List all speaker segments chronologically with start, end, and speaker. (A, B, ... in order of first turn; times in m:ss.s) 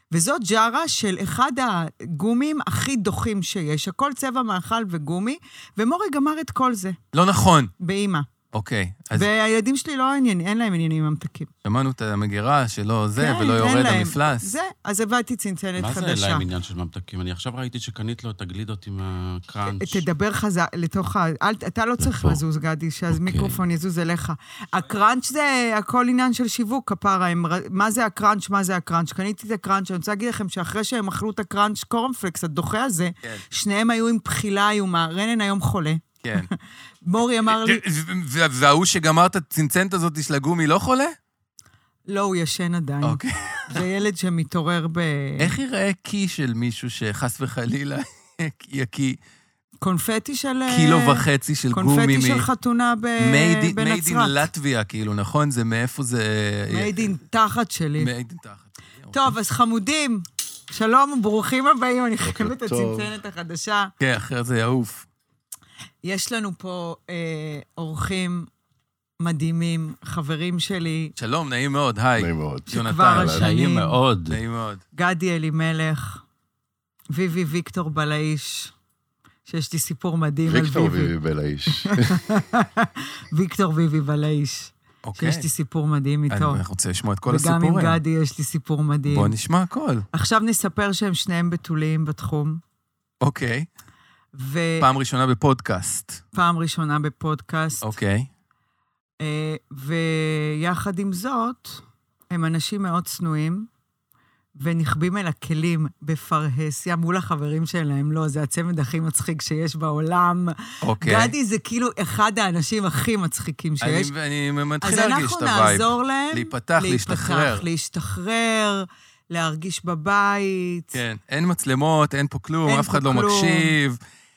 0:00.1-0:07.0 A
0:07.1-0:07.7 B
0:07.8-0:08.3 A
0:08.5-0:09.3 B
0:09.2-0:11.5 A
0:11.6-0:14.5 B
0:13.2-0:16.5 A
0:15.8-0:20.0 C
0:19.7-0:37.8 A
0:22.0-0:22.4 C
0:23.1-0:23.6 C
0:36.2-0:36.5 B
0:37.5-0:41.2 B
0:42.1-0:45.6 A
0:43.0-0:43.7 B
0:45.4-0:49.2 B
0:49.8-0:54.5 A
0:50.7-0:52.5 B
0:53.2-0:57.2 B
0:56.7-0:58.1 A
0:58.0-0:59.3 B
0:59.1-1:03.9 A
1:02.2-1:03.1 D
1:04.0-1:05.1 B
1:06.0-1:08.5 A
1:09.2-1:11.1 A
1:11.2-1:13.4 B
1:12.2-1:13.5 D
1:12.7-1:14.0 A
1:13.2-1:14.4 C
1:14.3-1:14.8 B
1:14.9-1:16.2 A
1:17.1-1:18.7 A
1:19.5-1:21.1 A
1:20.5-1:22.2 D
1:21.8-1:26.6 A
1:25.0-1:25.5 B
1:26.3-1:28.0 B
1:27.3-1:29.4 A
1:29.1-1:30.1 B
1:30.1-1:32.6 A
1:33.2-1:33.7 B
1:34.4-1:34.9 A
1:34.8-1:36.2 B
1:36.3-1:37.9 A
1:37.8-1:38.3 B
1:39.2-1:43.7 A
1:44.6-1:54.1 A
1:50.8-1:51.3 B
1:53.8-1:57.7 B
1:54.8-2:01.0 A
2:00.9-2:04.0 B
2:02.6-2:03.8 A